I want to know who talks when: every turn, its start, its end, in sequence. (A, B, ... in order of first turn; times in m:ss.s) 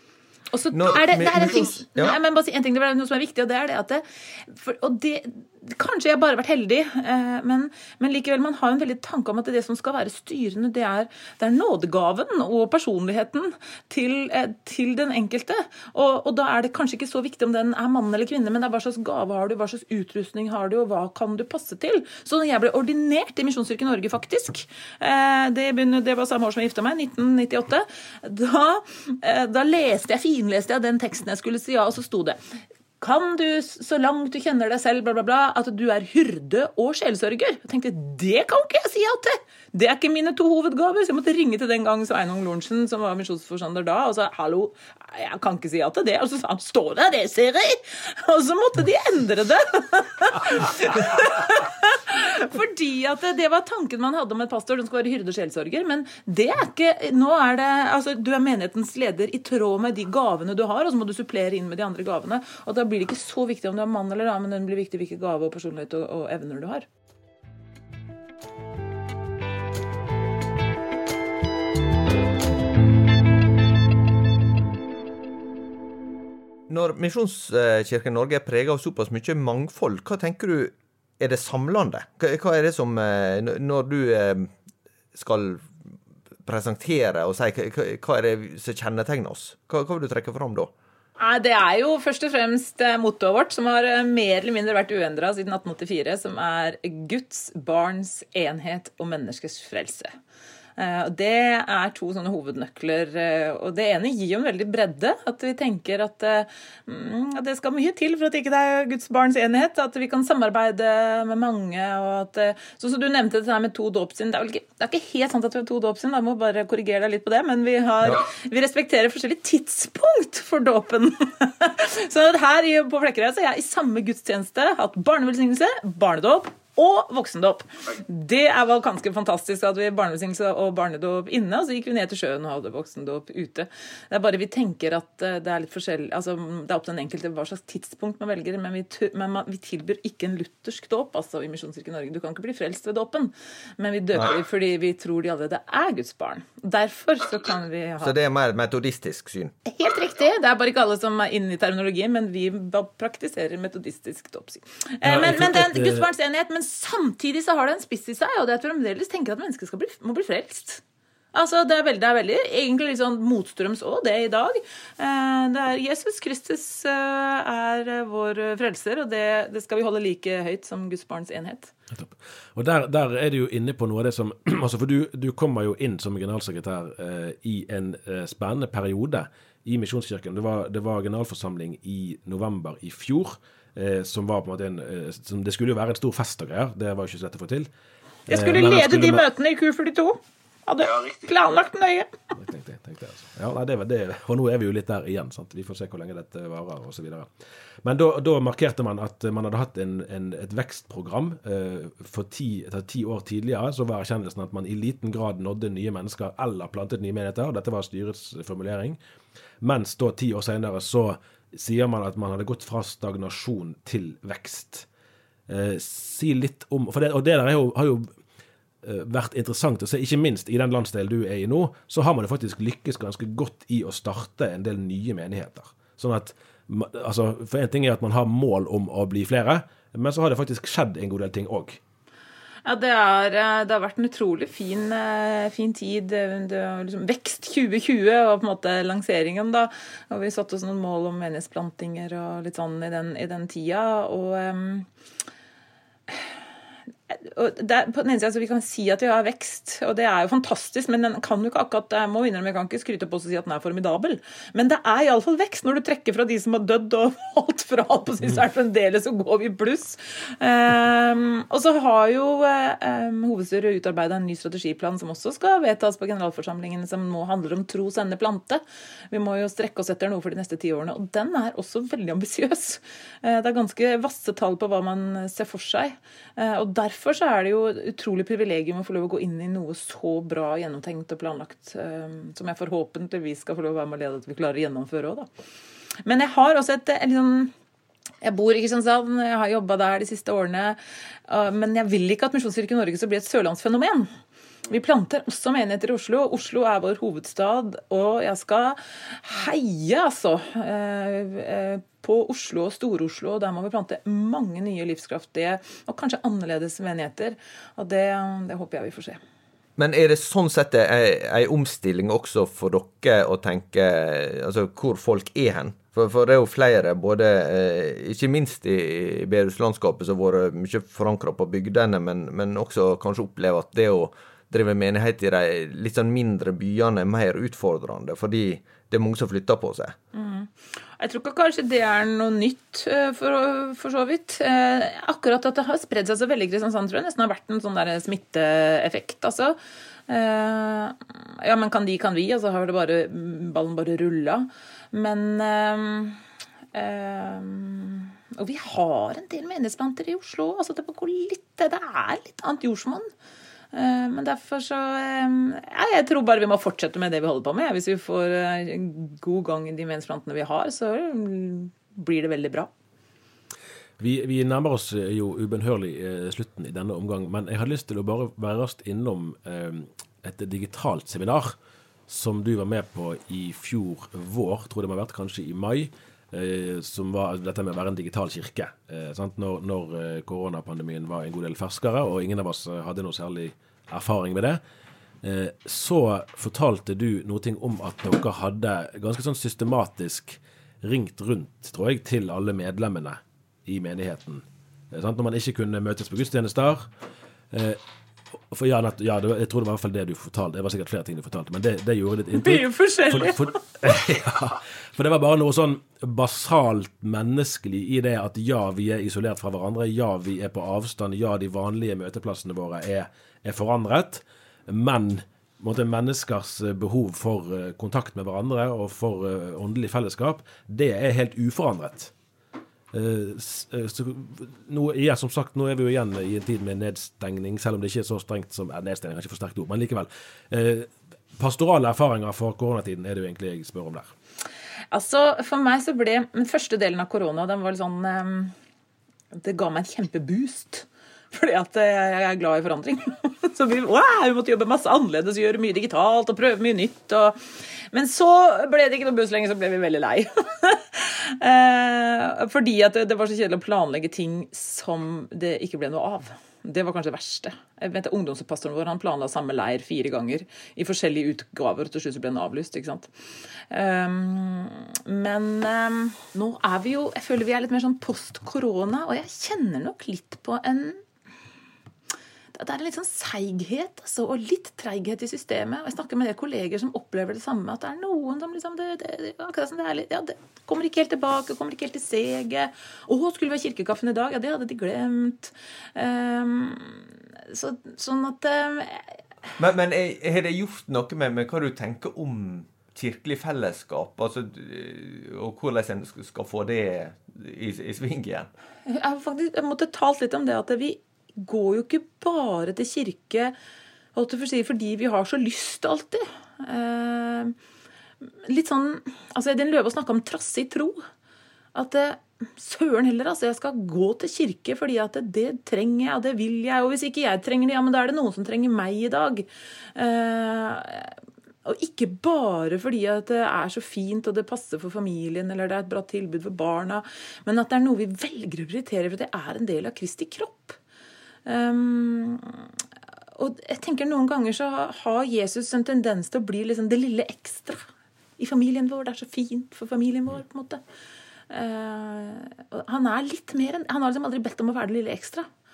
0:00.5-0:32.4 A
0:00.7-0:02.2 B
0:33.0-1:06.8 A
1:16.7-1:24.5 B
1:25.1-1:25.7 B
1:26.4-1:30.7 B
1:31.2-1:40.1 A
1:40.8-2:28.1 A
2:28.0-2:29.6 B
2:29.6-2:40.8 A
2:35.0-2:36.1 C
2:41.3-2:51.7 A
2:51.9-3:07.7 C
3:08.3-3:12.1 A
3:08.3-3:09.2 C
3:12.4-3:17.3 C
3:17.8-3:29.0 C
3:29.6-3:34.8 C
3:35.5-3:38.1 C
3:38.8-3:51.8 C
3:52.6-4:04.9 A
4:07.1-4:45.3 A
4:46.0-4:47.5 A
4:48.2-4:54.1 A
4:54.7-5:09.2 A
5:09.8-5:29.9 B
5:30.1-5:39.6 A
5:40.1-5:46.2 A
5:46.7-5:53.1 A
5:53.7-6:02.7 A
6:04.0-6:11.5 C
6:12.1-6:24.6 C
6:25.2-6:36.8 C
6:37.5-6:37.8 C
6:38.5-7:02.1 C
6:42.3-6:43.5 A
7:02.9-7:14.1 C
7:14.9-7:18.5 A
7:19.3-7:27.4 A
7:27.9-7:43.1 A
7:43.7-7:51.0 A
7:52.5-8:09.1 A
8:09.6-8:18.5 B
8:18.8-8:23.5 A
8:24.1-8:27.5 A
8:28.4-8:31.0 A
8:31.7-8:50.8 A
8:51.4-8:52.7 A
8:53.4-9:00.8 A
9:01.5-9:05.5 A